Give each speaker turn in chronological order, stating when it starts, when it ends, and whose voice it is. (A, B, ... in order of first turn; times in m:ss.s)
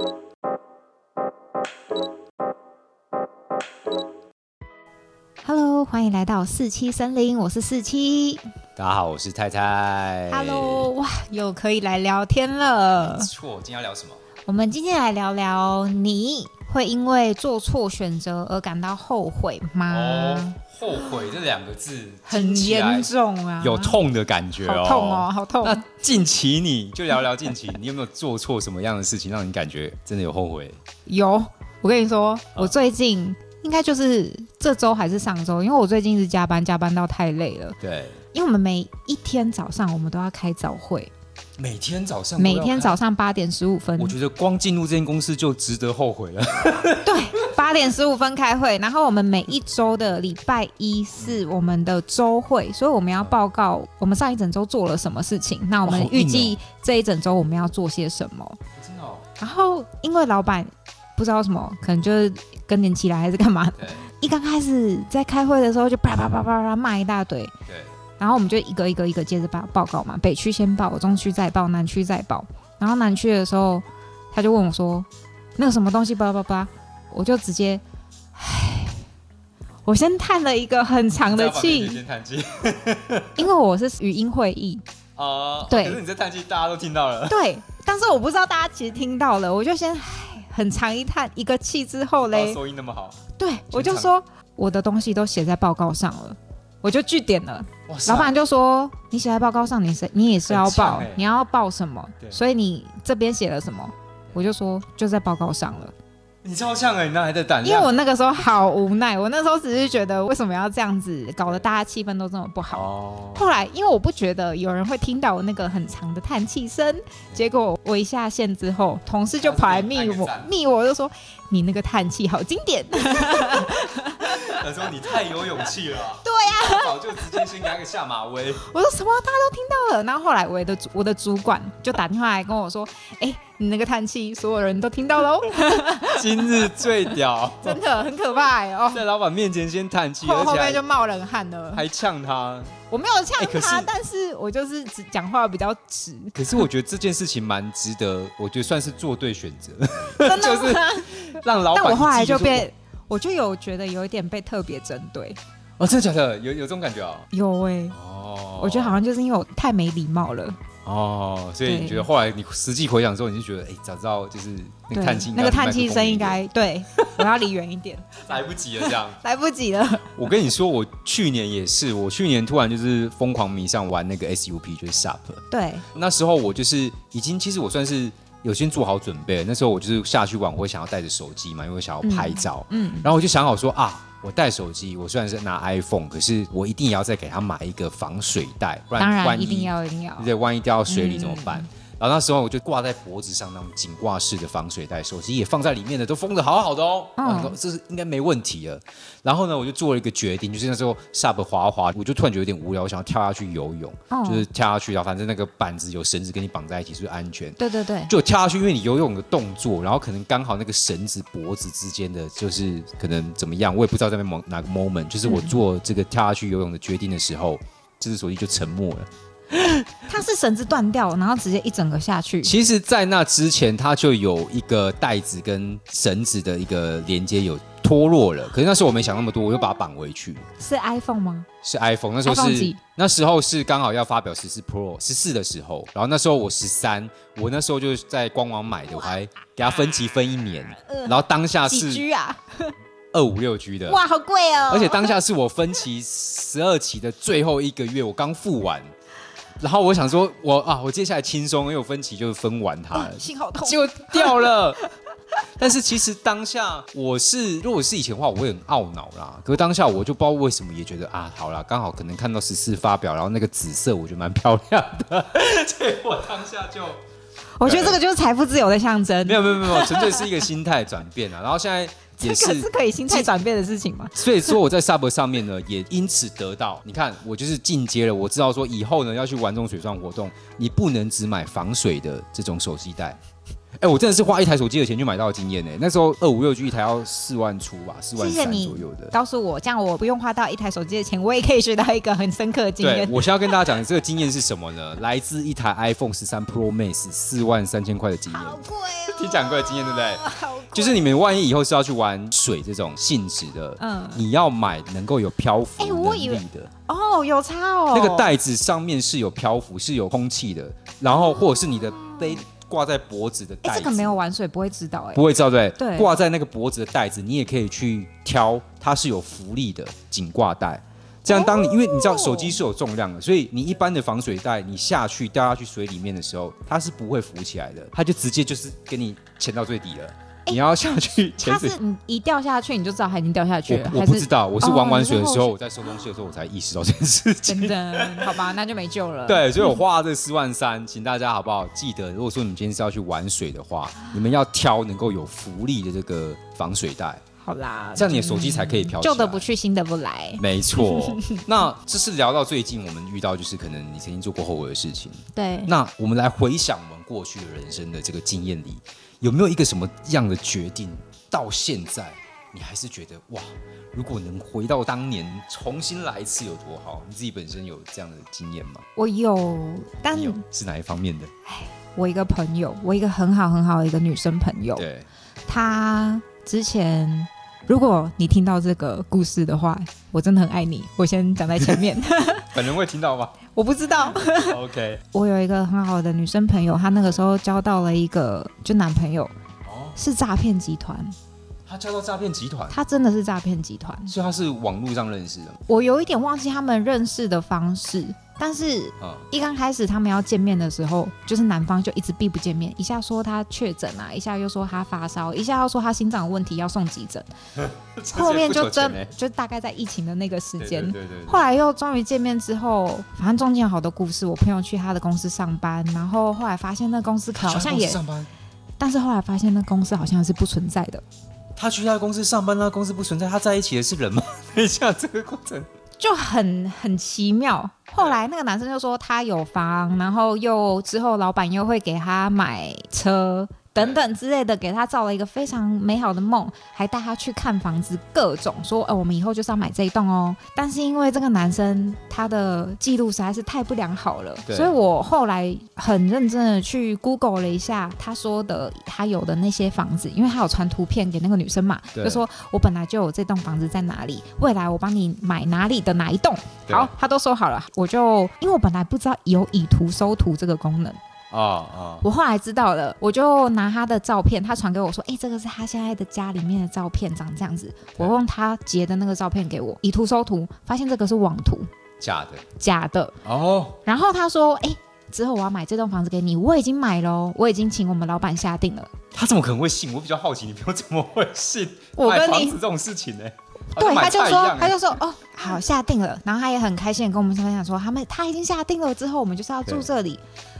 0:05.4-0:08.4 A
0:08.8-0:10.9 B
0:10.3-0:13.3 A
0:13.0-0:14.2 B
0:14.5-0:21.1 A
0:19.9-0:30.8 B
0:22.2-0:24.0 A
0:24.6-0:25.8 A
0:31.0-0:37.8 A
0:37.8-0:38.2 B
0:38.3-0:41.1 A
0:41.6-0:43.0 B
0:42.4-0:44.1 A
0:44.0-0:47.2 B
0:47.0-0:58.6 A
0:55.8-0:56.6 B
0:58.8-0:59.2 B
0:59.4-1:07.5 A
1:07.7-1:07.9 B
1:08.2-1:17.8 A
1:18.3-1:19.0 A
1:19.8-1:22.0 A
1:21.3-1:23.4 B
1:23.4-1:24.8 A
1:25.2-1:27.4 B
1:25.7-1:26.0 A
1:27.3-1:32.6 A
1:32.2-1:34.1 B
1:33.4-1:45.9 A
1:37.9-1:38.3 B
1:40.5-1:41.2 B
1:46.4-1:47.9 B
1:47.6-2:04.6 A
1:52.7-1:53.5 B
1:59.4-2:00.5 B
2:03.0-2:08.7 B
2:06.2-2:07.5 A
2:08.6-2:16.9 A
2:15.6-2:17.8 B
2:17.6-2:19.0 A
2:18.9-2:20.8 B
2:20.2-2:21.8 A
2:21.7-2:22.7 B
2:22.9-2:26.6 A
2:23.3-2:23.9 B
2:26.3-2:32.7 B
2:30.2-2:35.4 A
2:35.8-2:37.3 B
2:37.3-2:38.0 A
2:37.9-2:39.0 B
2:38.6-2:40.6 A
2:40.8-2:46.4 B
2:41.6-2:42.1 A
2:44.9-2:48.2 A
2:46.9-2:47.2 B
2:48.2-2:49.2 B
2:48.8-2:50.2 A
2:50.1-3:39.8 B
2:55.5-2:55.8 A
3:02.0-3:03.1 A
3:09.0-3:10.3 A
3:10.9-3:11.7 A
3:17.2-3:17.5 A
3:24.1-3:24.4 A
3:27.6-3:28.1 A
3:35.2-3:35.6 A
3:40.1-3:42.5 A
3:42.4-3:50.4 B
3:50.6-3:51.5 A
3:51.6-4:02.0 B
3:52.2-3:52.8 A
4:00.9-4:02.7 A
4:03.1-4:04.0 B
4:03.9-4:05.1 A
4:04.7-4:08.9 B
4:09.6-4:14.8 B
4:12.9-4:14.5 A
4:15.6-4:27.0 B
4:27.6-4:30.4 A
4:27.6-4:28.0 B
4:29.2-4:33.3 B
4:32.2-4:34.6 A
4:34.1-4:43.2 B
4:43.8-4:49.1 B
4:48.2-4:53.5 A
4:52.8-5:06.7 B
4:58.3-5:01.1 A
5:03.8-5:04.2 A
5:05.8-5:08.3 A
5:07.9-5:14.2 B
5:11.2-5:12.4 A
5:13.6-5:15.2 A
5:15.1-5:31.8 B
5:15.8-5:16.1 A
5:21.3-5:22.6 A
5:31.3-5:35.5 A
5:33.7-5:38.4 B
5:37.5-5:39.8 A
5:39.3-5:47.2 B
5:47.4-5:51.4 A
5:48.0-5:49.5 B
5:50.4-6:08.8 B
5:55.3-5:55.7 A
6:09.0-6:10.4 A
6:10.1-6:11.3 B
6:11.4-6:14.8 A
6:14.7-6:15.1 B
6:15.5-6:22.5 A
6:21.6-6:21.8 B
6:22.5-6:23.4 B
6:23.5-6:24.6 A
6:24.3-6:25.0 B
6:25.1-6:29.3 A
6:29.6-6:30.0 B
6:30.0-6:31.1 A
6:31.6-6:32.8 B
6:32.7-6:34.1 A
6:34.0-6:35.6 B
6:35.7-6:47.3 A
6:47.6-6:49.1 B
6:48.1-6:58.0 A
6:50.6-6:51.4 B
6:57.4-6:58.3 B
6:58.8-7:01.0 A
7:01.6-7:05.7 B
7:06.0-7:41.0 A
7:13.8-7:14.0 B
7:24.5-7:24.8 B
7:31.9-7:32.2 B
7:36.7-7:36.9 B
7:41.3-7:42.0 B
7:42.0-7:51.7 A
7:52.0-7:52.4 B
7:52.6-7:53.1 A
7:53.2-7:53.8 B
7:53.8-7:58.9 A
7:59.1-8:04.9 B
8:02.0-8:02.6 A
8:03.7-8:10.2 A